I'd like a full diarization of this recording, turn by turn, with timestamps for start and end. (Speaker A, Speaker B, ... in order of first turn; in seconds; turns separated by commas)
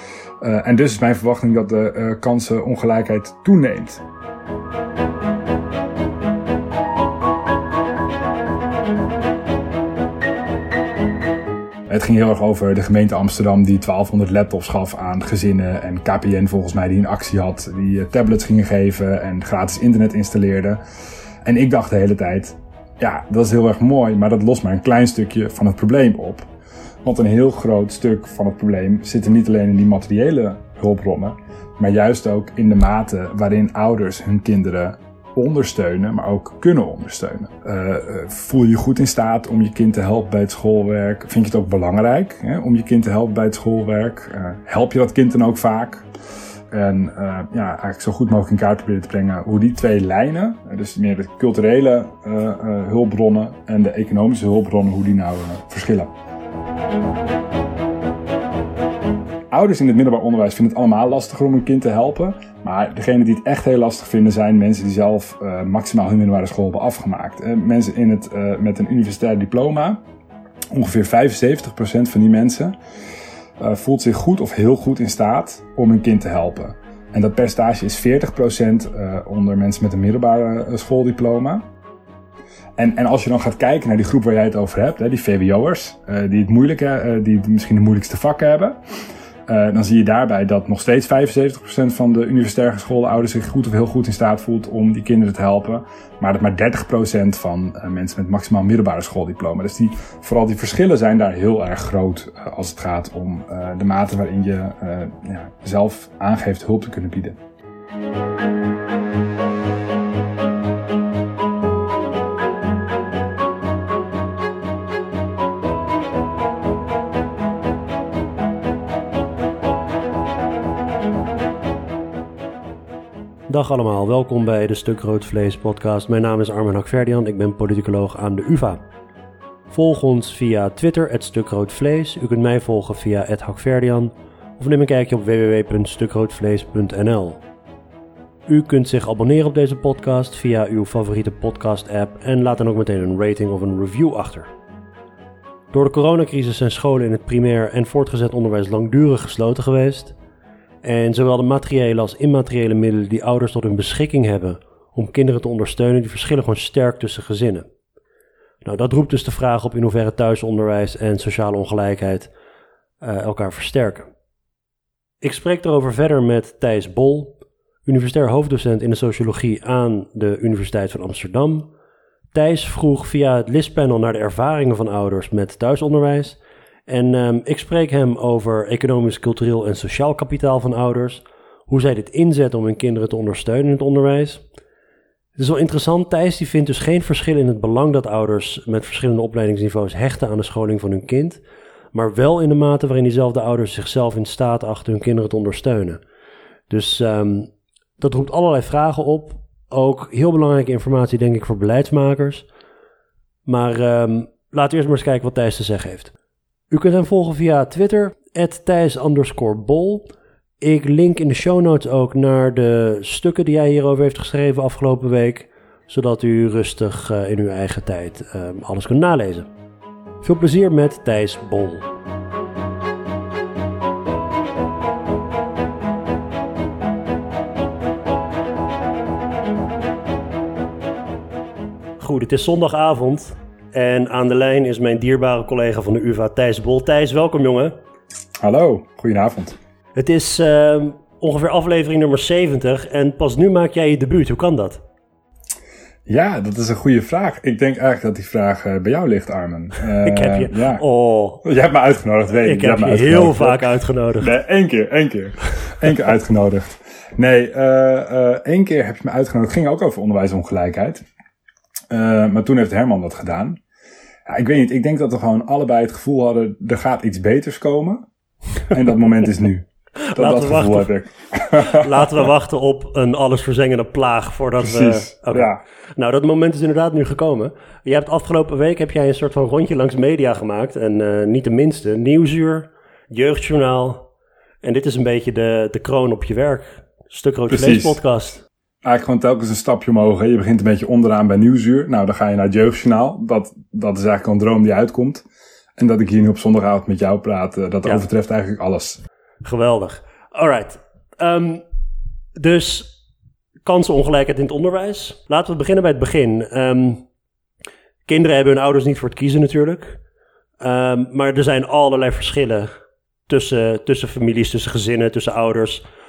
Speaker A: 0.4-4.0, Speaker A: 11.9-20.8, Speaker A: 21.4-26.5, Speaker A: 27.0-46.0, Speaker A: 46.7-56.1, Speaker A: 59.5-70.0, Speaker A: 70.7-72.7, Speaker A: 73.6-81.6, Speaker A: 82.8-88.8, Speaker A: 89.5-107.4, Speaker B: 123.5-128.8, Speaker B: 129.7-137.4, Speaker B: 138.5-144.5, Speaker B: 145.7-150.2, Speaker B: 150.8-157.7, Speaker B: 158.6-162.3, Speaker B: 163.0-164.1, Speaker B: 165.2-171.7, Speaker B: 172.3-184.4, Speaker B: 185.3-191.4, Speaker B: 191.9-196.0, Speaker B: 196.7-202.5, Speaker B: 203.4-206.1, Speaker B: 206.7-219.5, Speaker B: 220.2-221.9, Speaker B: 232.0-237.8, Speaker A: 238.4-239.6, Speaker B: 239.9-244.8, Speaker A: 246.1-250.8, Speaker B: 250.0-251.4, Speaker A: 251.4-261.1, Speaker B: 252.4-254.3, Speaker A: 261.9-263.6, Speaker A: 264.3-268.1, Speaker A: 268.7-272.3, Speaker B: 270.1-270.9, Speaker B: 271.6-284.1, Speaker A: 274.6-275.6, Speaker B: 284.6-288.4, Speaker A: 287.5-288.0, Speaker A: 288.8-299.0, Speaker B: 299.4-301.6, Speaker B: 302.4-303.0, Speaker B: 303.6-307.0, Speaker B: 308.1-310.0, Speaker B: 310.6-312.7, Speaker B: 313.3-315.8